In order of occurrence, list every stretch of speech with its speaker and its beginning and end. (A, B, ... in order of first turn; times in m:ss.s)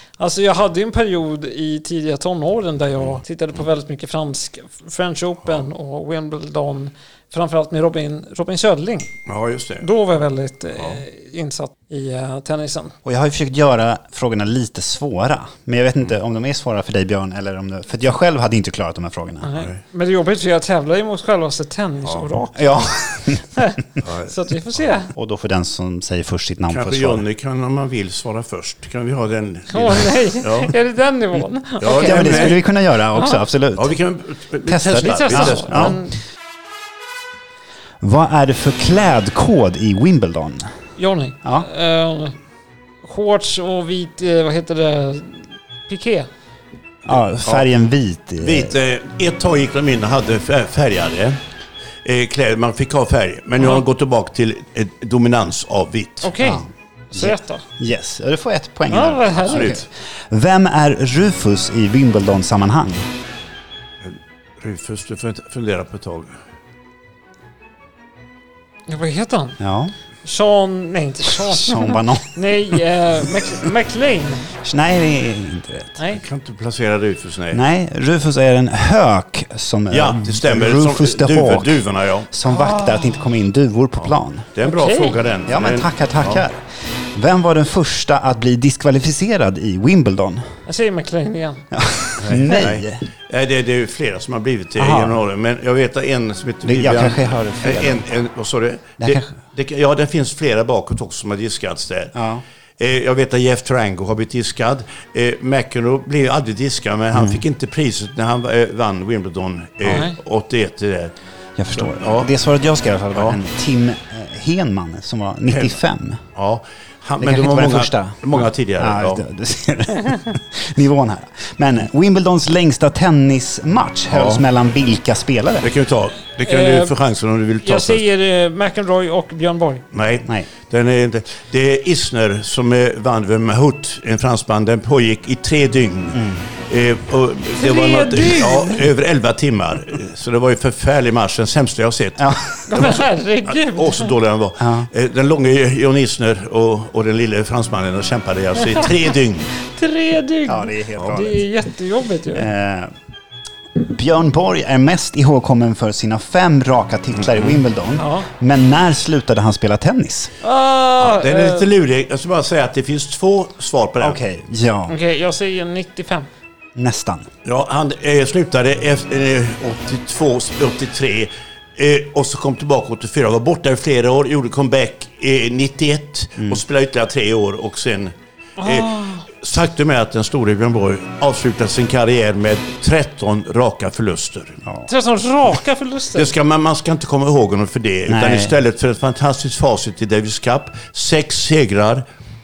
0:00.2-0:09.1 A
0:09.3-0:09.9 B
0:09.8-0:12.9 A
0:13.0-0:19.5 C
0:19.4-0:25.1 A
0:22.0-0:22.3 B
0:22.6-0:23.4 C
0:24.0-0:24.3 B
0:25.1-0:27.2 C
0:26.7-0:30.7 B
0:29.7-0:32.6 A
0:31.8-0:32.6 B
0:32.0-0:33.9 C
0:33.1-0:33.4 A
0:33.7-0:36.0 B
0:34.7-0:36.0 C
0:35.0-0:36.1 A
0:38.0-0:40.7 C
0:41.0-0:42.4 A
0:43.0-0:46.3 A
0:47.0-0:48.7 C
0:47.1-0:47.6 B
0:48.4-0:51.4 B
0:52.0-0:56.3 B
0:56.2-0:57.6 A
0:56.4-1:03.1 C
0:58.9-0:59.8 A
0:59.5-0:59.8 B
1:04.0-1:06.4 B
1:08.9-1:09.6 A
1:09.6-1:09.9 C
1:10.2-1:14.5 A
1:11.4-1:12.4 C
1:14.6-1:16.0 C
1:16.1-1:17.6 B
1:17.5-1:24.5 C
1:19.9-1:22.3 B
1:22.5-1:23.2 A
1:24.0-1:26.4 B
1:24.6-1:25.2 A
1:25.5-1:30.5 C
1:30.6-1:31.6 A
1:31.7-1:33.0 C
1:32.2-1:42.1 B
1:34.8-1:35.2 C
1:36.6-1:38.0 C
1:39.0-1:39.3 C
1:42.1-1:42.4 C
1:42.8-1:51.1 B
1:47.1-1:47.4 C
1:49.9-1:50.2 A
1:51.6-1:56.2 C
1:51.7-1:52.3 B
1:55.5-1:55.8 B
1:56.3-1:59.2 B
1:57.2-2:05.7 C
2:04.1-2:04.4 B
2:05.6-2:08.0 B
2:06.4-2:06.9 A
2:07.6-2:09.8 A
2:09.9-2:29.5 B
2:16.1-2:16.4 C
2:17.6-2:18.9 A
2:22.2-2:22.5 C
2:22.7-2:24.1 A
2:24.6-2:24.9 C
2:29.6-2:32.5 A
2:30.5-2:31.4 C
2:32.3-2:32.9 C
2:33.8-2:40.3 C
2:37.3-2:37.6 B
2:38.0-2:38.3 A
2:40.4-2:41.7 A
2:41.0-2:44.2 B
2:44.0-2:44.9 C
2:44.9-2:46.3 A
2:46.8-2:47.3 C
2:47.4-3:04.6 B
2:58.6-2:59.2 A
3:04.9-3:06.3 A
3:06.1-3:12.0 B
3:08.1-3:08.5 C